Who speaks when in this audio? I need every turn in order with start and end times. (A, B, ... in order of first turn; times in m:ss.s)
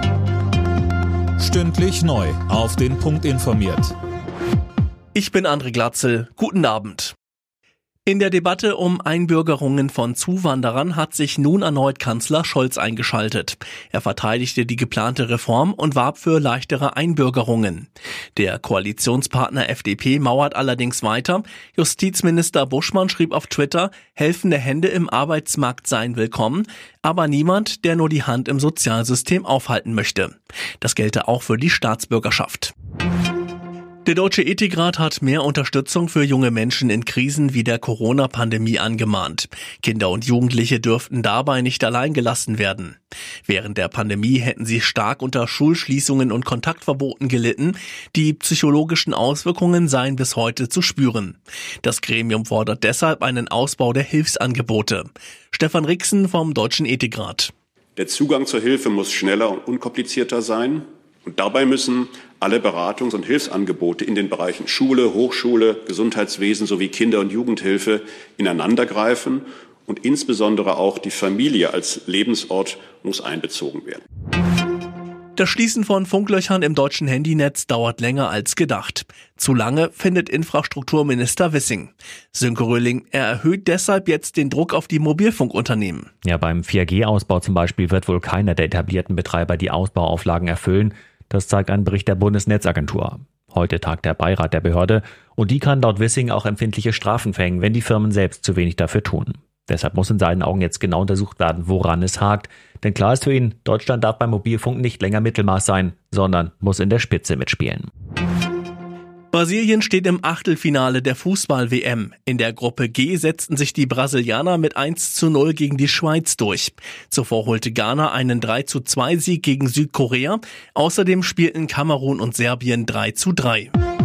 0:01.4-0:03.9 A
0:05.1-0:07.1 B
0:08.0-0:32.7 B
0:34.0-0:57.5 B
0:58.0-1:14.0 C
1:15.4-1:26.1 B
1:26.2-1:47.9 D
1:49.3-2:03.7 B